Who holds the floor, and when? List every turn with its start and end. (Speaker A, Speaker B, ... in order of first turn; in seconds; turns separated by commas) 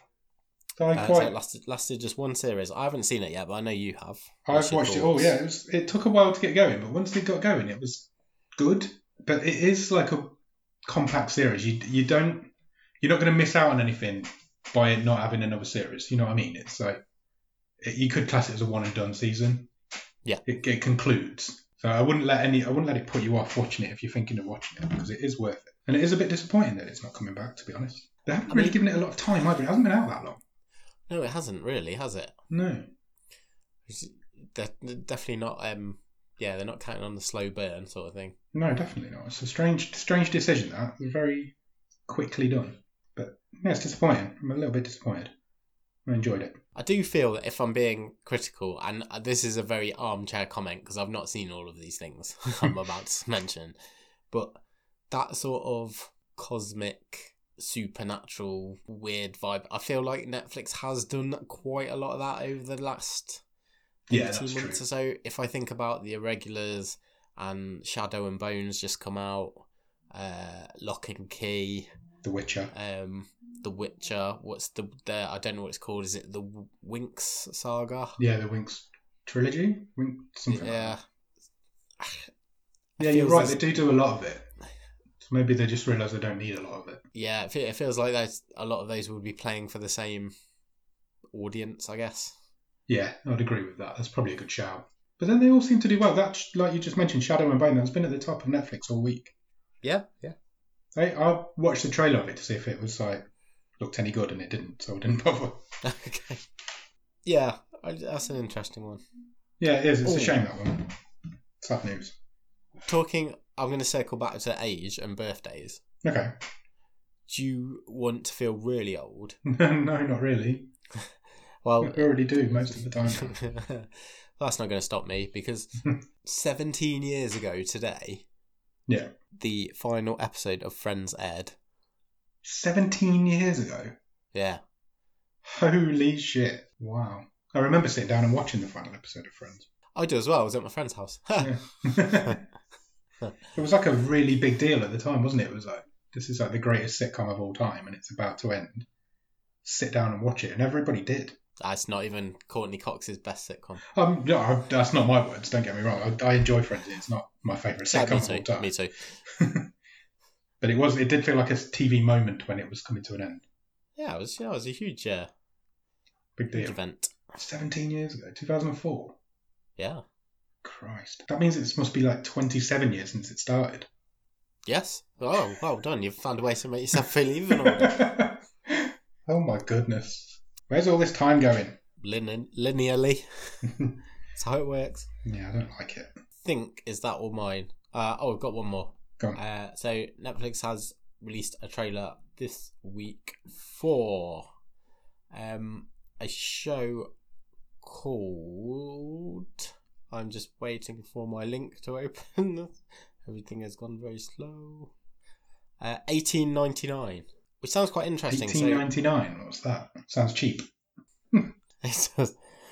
Speaker A: 0.8-1.4, Speaker B: 0.9-5.4, Speaker A: 4.5-17.0, Speaker A: 17.8-19.7, Speaker A: 20.4-30.4, Speaker B: 28.5-28.8, Speaker B: 31.1-32.3, Speaker A: 32.5-32.9, Speaker B: 33.9-38.4, Speaker A: 38.5-41.5, Speaker A: 42.1-45.3, Speaker A: 46.1-46.6, Speaker B: 46.8-53.8, Speaker B: 54.3-63.4, Speaker A: 64.1-64.8, Speaker B: 64.1-71.9, Speaker A: 72.2-72.7, Speaker B: 72.7-78.2, Speaker A: 78.2-81.0, Speaker B: 80.5-81.0, Speaker B: 82.0-82.3, Speaker B: 83.0-83.8, Speaker A: 83.0-84.5, Speaker A: 85.2-87.0, Speaker B: 87.1-90.3, Speaker B: 91.3-92.3, Speaker A: 92.9-99.3, Speaker B: 99.8-100.4, Speaker A: 100.9-103.2, Speaker A: 103.8-105.7, Speaker B: 105.8-106.4, Speaker B: 107.2-109.0, Speaker A: 109.6-110.9, Speaker B: 110.0-110.4, Speaker A: 111.6-112.2, Speaker B: 112.9-115.8, Speaker A: 116.0-116.3, Speaker B: 117.3-119.4, Speaker A: 119.5-120.7, Speaker B: 121.6-122.1, Speaker A: 121.8-123.3, Speaker B: 123.0-128.2, Speaker B: 129.4-131.6, Speaker A: 132.4-133.9, Speaker B: 134.3-134.6, Speaker A: 135.4-139.7, Speaker B: 140.0-142.4, Speaker A: 141.4-142.4, Speaker A: 143.6-148.9, Speaker A: 149.6-151.4, Speaker B: 151.6-153.8, Speaker A: 153.8-158.7, Speaker B: 157.9-159.2, Speaker A: 159.3-159.7, Speaker A: 160.6-163.4, Speaker B: 164.0-165.3, Speaker A: 166.4-166.8, Speaker B: 166.5-167.2, Speaker A: 167.3-169.2, Speaker B: 169.8-170.0, Speaker A: 170.6-173.9, Speaker B: 174.7-178.0, Speaker A: 177.5-181.8, Speaker B: 182.0-183.7, Speaker A: 183.7-183.9, Speaker B: 184.4-185.1, Speaker A: 185.2-186.1, Speaker B: 186.4-194.5, Speaker B: 195.3-197.1, Speaker B: 197.8-204.9, Speaker B: 205.8-208.8, Speaker A: 208.3-210.7, Speaker B: 211.8-212.4